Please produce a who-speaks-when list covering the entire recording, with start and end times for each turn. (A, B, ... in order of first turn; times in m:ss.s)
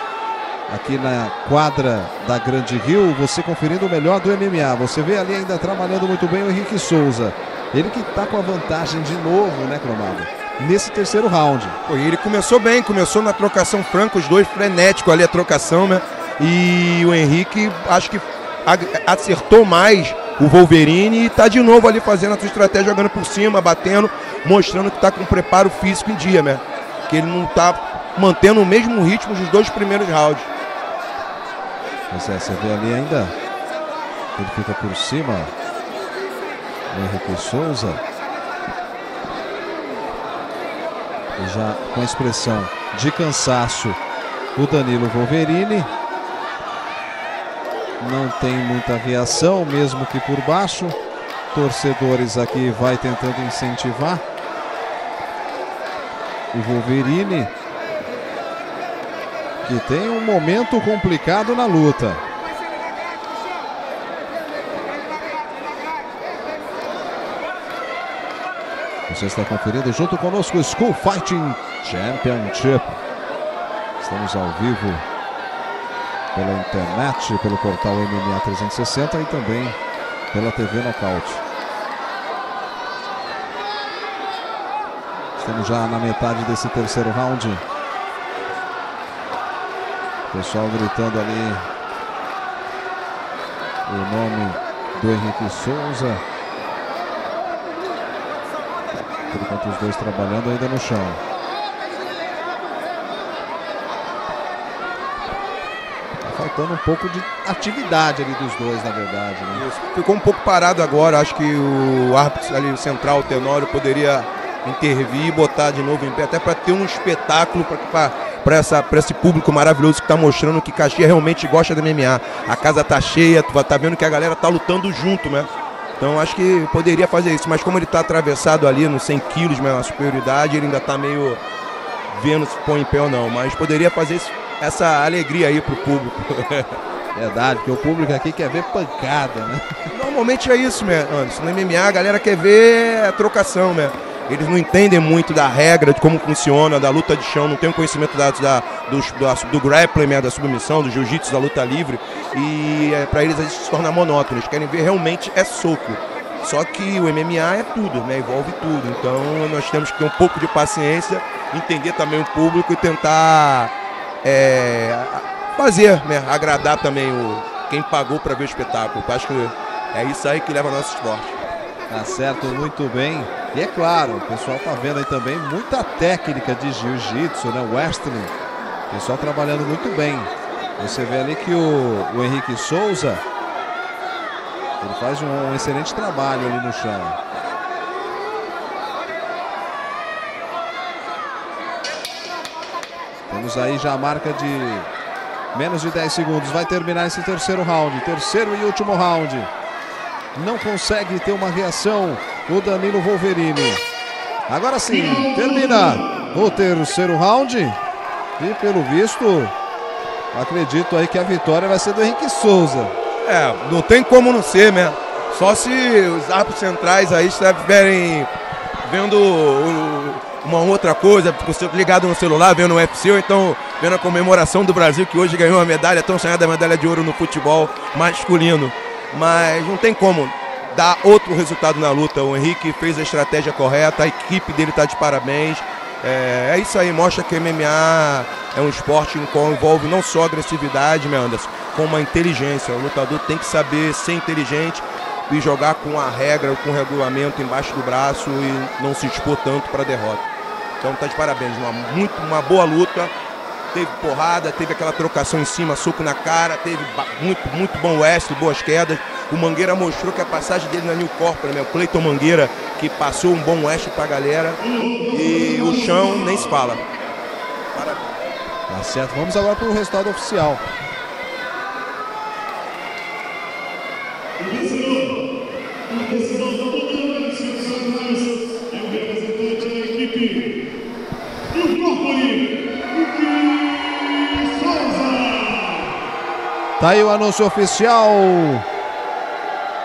0:00.7-0:11.8 A
0:11.8-0:30.5 B
0:32.1-0:33.3 A
0:34.4-0:35.5 A
0:36.9-0:38.0 A
0:41.4-0:44.0 A
0:44.6-0:45.9 A
0:48.0-0:51.0 A
0:51.5-0:54.2 A
0:56.5-0:57.5 A
0:59.6-1:02.2 A
1:09.1-1:13.0 A
1:14.0-1:15.0 A
1:16.3-1:19.8 A
1:20.3-1:21.4 A
1:25.4-1:27.6 A
1:30.3-1:31.6 A
1:33.8-1:36.2 A
1:39.3-1:41.2 A
1:46.2-1:49.6 A
1:49.5-2:11.4 B
2:12.1-2:16.8 B
2:17.1-2:19.6 A
2:19.9-2:43.7 B
2:44.2-2:51.4 B
2:51.9-2:58.3 A
2:58.9-3:03.2 A
3:04.8-3:07.2 A
3:13.3-3:14.9 A
3:15.5-3:19.5 A
3:20.3-3:23.8 A
3:24.5-3:27.8 A
3:28.4-3:29.5 A
3:30.3-3:32.9 A
3:33.2-3:38.3 B
3:38.8-4:10.2 B
4:10.8-4:13.1 B
4:13.7-4:26.8 B
4:27.7-4:28.1 B
4:28.7-4:30.6 A
4:34.4-4:35.2 B
4:35.9-4:40.5 B
4:41.5-4:45.8 B
4:46.8-4:48.7 A